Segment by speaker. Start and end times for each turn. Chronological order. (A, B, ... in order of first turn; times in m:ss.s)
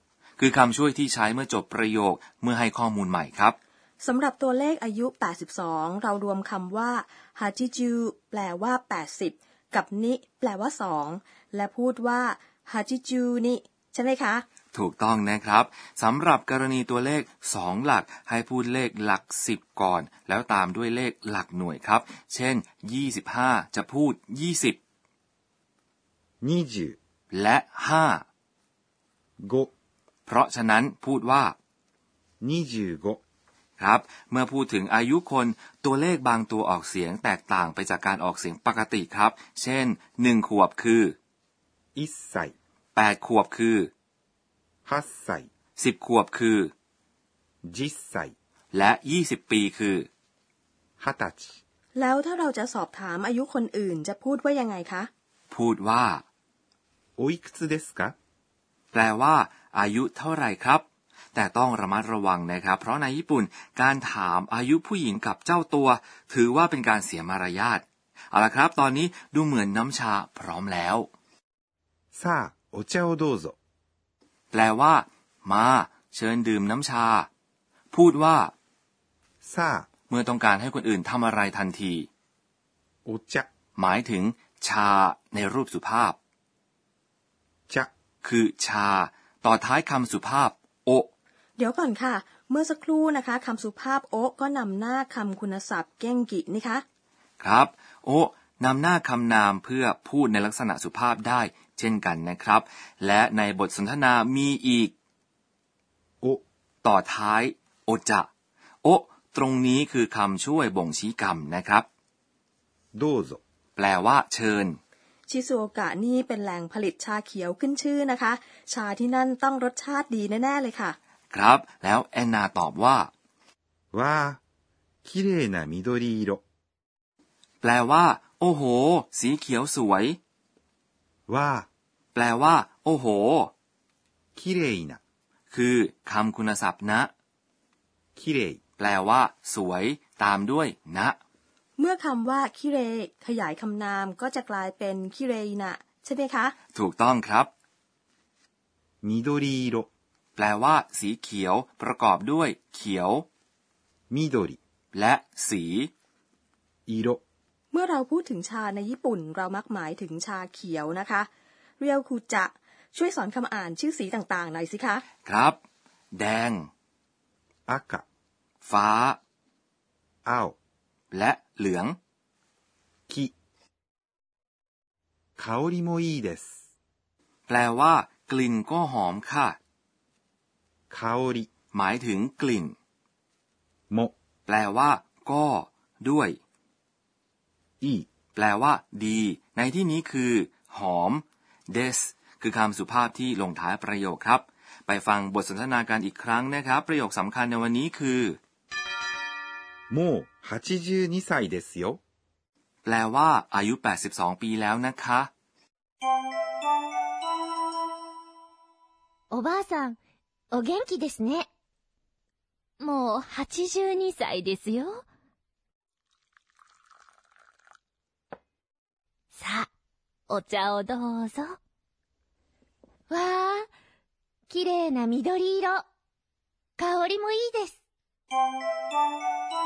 0:00.4-0:03.6 A
0:04.0-0:14.4 B
0:14.7-0:24.8 A
0:26.4-0:27.0 C
0:27.3-0:28.2 A
0:29.4-0:29.7 C
0:30.3-0:31.5 A
0:32.4-0:33.2 C
0:33.8-0:41.1 A
0:41.9-0:42.5 C
0:42.9-0:43.9 A
0:44.8-0:45.5 C
0:45.8-0:46.7 A
0:47.6-0:48.3 C
0:48.7-0:50.1 A
0:51.0-0:51.6 C
0:51.9-0:55.1 B
0:55.5-0:56.2 A
0:57.2-0:58.1 C
0:58.9-1:11.1 A
1:12.1-1:13.6 C
1:14.5-1:17.3 A
1:17.9-1:18.5 A
1:19.4-1:19.9 C
1:20.1-1:22.1 A
1:23.0-1:23.5 C
1:23.8-1:26.2 A
1:28.2-1:31.1 A
1:31.6-1:36.8 B
1:37.4-1:44.9 A
1:46.8-1:48.3 A
1:48.8-1:51.8 A
1:52.9-1:53.4 C
1:53.8-1:54.8 A
1:55.3-2:01.0 B
2:01.3-2:03.1 A
2:03.9-2:04.4 C
2:05.0-2:06.4 C
2:07.6-2:10.2 A
2:11.3-2:11.7 C
2:12.1-2:13.5 A
2:14.3-2:15.0 C
2:15.5-2:17.1 A
2:18.2-2:18.6 C
2:18.8-2:21.2 A
2:21.8-2:26.5 B
2:26.7-2:27.5 A
2:29.0-2:29.9 C
2:30.4-2:33.2 A
2:34.1-2:34.6 C
2:34.9-2:35.9 A
2:36.9-2:37.2 C
2:37.7-2:45.0 B
2:45.2-2:45.6 A
2:46.1-2:46.7 A
2:47.7-2:48.0 C
2:48.6-2:49.2 A
2:50.2-2:50.6 C
2:51.1-2:52.0 A
2:55.4-2:56.6 C
2:57.5-2:59.6 A
3:00.9-3:01.5 C
3:01.7-3:02.7 A
3:04.5-3:06.4 A
3:07.8-3:08.1 C
3:08.3-3:18.4 A
3:19.9-3:22.0 C
3:22.8-3:25.3 A
3:29.3-3:30.0 D
3:30.5-3:31.5 D
3:32.8-3:35.0 D
3:39.3-3:39.7 D
3:40.3-3:41.6 D
3:43.1-3:43.7 D
3:44.5-3:45.8 D
3:46.8-3:47.7 D